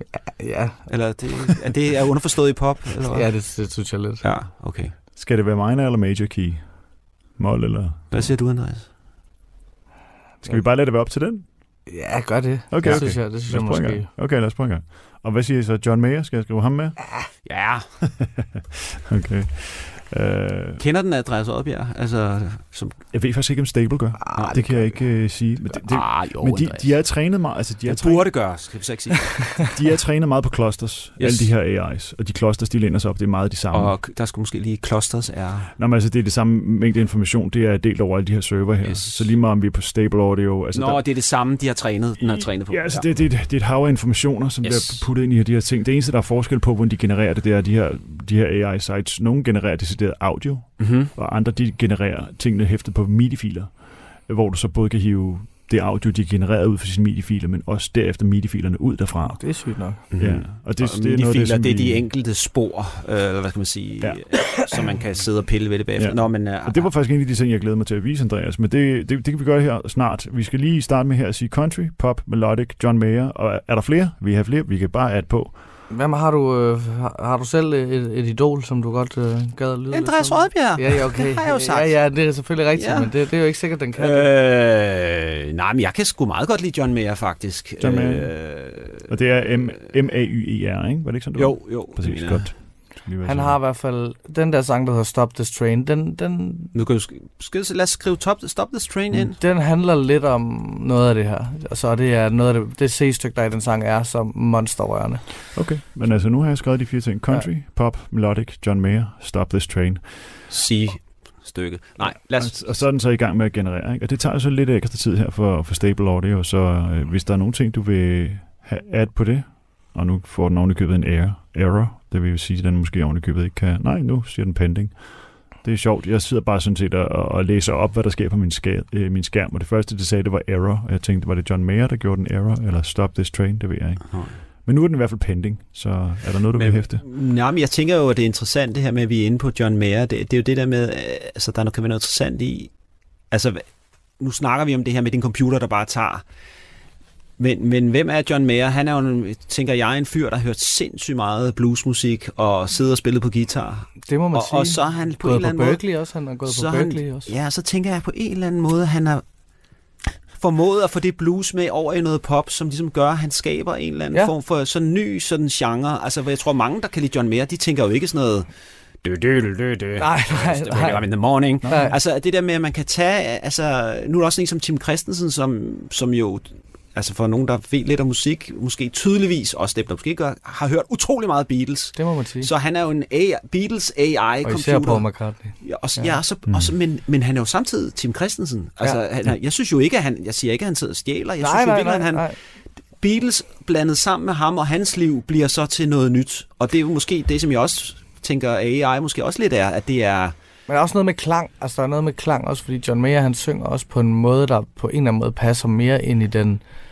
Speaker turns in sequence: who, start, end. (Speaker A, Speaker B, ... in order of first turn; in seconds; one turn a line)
Speaker A: 0.1-1.1
Speaker B: 0.9-4.9
Speaker A: 3.1-4.2
Speaker C: 5.1-8.3
Speaker B: 8.1-8.9
Speaker C: 10.4-11.5
Speaker A: 11.9-14.1
Speaker C: 12.7-17.5
Speaker B: 12.8-13.1
Speaker B: 17.4-18.0
Speaker C: 18.1-20.8
Speaker B: 20.8-23.0
Speaker C: 23.1-28.5
Speaker A: 24.2-25.1
Speaker B: 24.3-25.2
Speaker B: 25.7-27.2
Speaker B: 27.9-29.7
Speaker C: 29.7-34.0
Speaker B: 31.2-31.5
Speaker B: 33.7-35.7
Speaker C: 35.8-41.0
Speaker B: 38.8-39.3
Speaker B: 40.7-43.3
Speaker C: 42.2-62.1
Speaker B: 44.6-45.1
Speaker B: 50.8-51.1
Speaker A: 59.4-60.0
Speaker B: 60.1-66.9
Speaker C: 66.0-75.6
Speaker A: 75.9-84.3
Speaker B: 79.9-89.1
Speaker C: 87.8-93.6
Speaker B: 91.3-92.5
Speaker A: 93.2-96.7
Speaker B: 96.7-99.4
Speaker A: 99.4-105.3
Speaker C: 105.5-110.4
Speaker B: 110.5-112.9
Speaker C: 112.0-137.0
Speaker B: 134.1-134.4
Speaker B: 136.5-142.7
Speaker B: 143.3-146.2
Speaker B: 147.4-159.2
Speaker A: 154.0-157.3
Speaker B: 160.3-168.5
Speaker B: 169.0-200.3
Speaker A: 170.0-171.9
Speaker A: 181.9-182.5
Speaker A: 184.4-186.2
Speaker C: 186.5-186.7
Speaker A: 191.4-192.4
Speaker A: 200.7-206.6